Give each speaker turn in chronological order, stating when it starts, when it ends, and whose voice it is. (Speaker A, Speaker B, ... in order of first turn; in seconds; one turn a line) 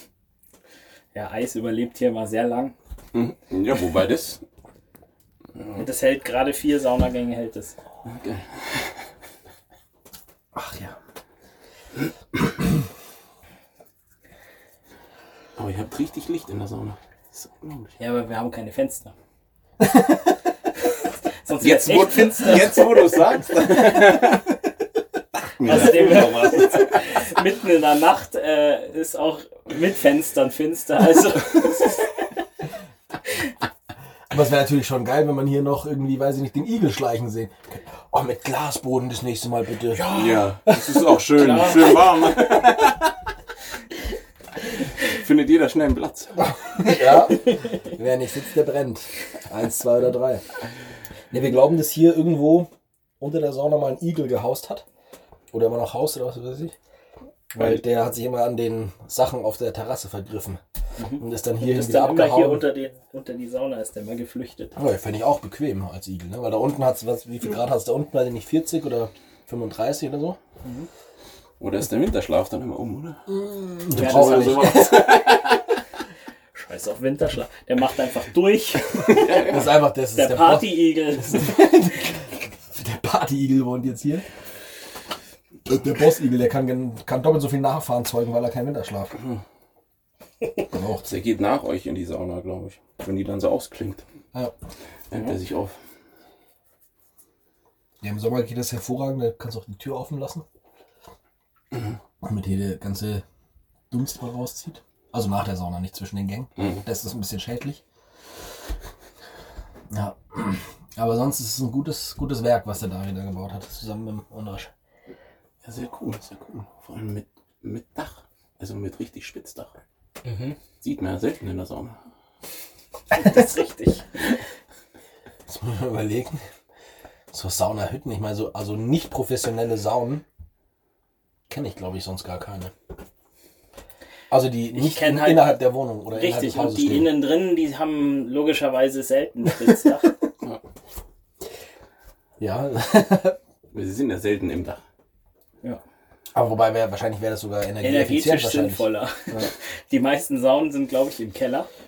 Speaker A: 1.1-2.8
Speaker B: 3.1-4.4
Speaker A: 5.8-7.8
Speaker B: 8.1-8.5
Speaker C: 10.6-10.9
Speaker B: 15.6-18.0
Speaker A: 18.0-19.1
Speaker A: 21.4-23.0
Speaker B: 21.6-24.6
Speaker B: 25.6-27.0
Speaker A: 25.6-32.1
Speaker C: 34.3-40.2
Speaker A: 40.0-40.4
Speaker B: 40.1-43.1
Speaker A: 41.4-42.0
Speaker B: 45.0-46.5
Speaker C: 46.6-50.4
Speaker C: 51.3-52.7
Speaker C: 53.2-54.9
Speaker C: 55.5-56.7
Speaker C: 57.5-60.6
Speaker A: 61.0-64.8
Speaker C: 61.2-62.7
Speaker C: 64.8-70.4
Speaker A: 70.6-70.9
Speaker B: 71.6-75.6
Speaker C: 73.3-75.0
Speaker A: 74.0-74.9
Speaker A: 76.5-79.3
Speaker B: 79.0-79.9
Speaker C: 79.3-84.2
Speaker A: 80.1-81.6
Speaker C: 85.7-89.2
Speaker C: 90.7-91.1
Speaker B: 91.0-94.0
Speaker B: 95.1-95.8
Speaker C: 98.0-100.4
Speaker C: 102.2-103.2
Speaker C: 103.9-107.8
Speaker C: 109.9-114.7
Speaker B: 115.6-119.7
Speaker A: 120.2-120.6
Speaker B: 120.8-122.0
Speaker A: 123.1-124.2
Speaker C: 125.5-126.4
Speaker C: 127.3-130.2
Speaker C: 131.5-132.7
Speaker C: 134.3-137.2
Speaker A: 134.8-140.2
Speaker C: 142.4-143.4
Speaker B: 143.7-144.8
Speaker C: 146.3-149.5
Speaker A: 147.8-151.7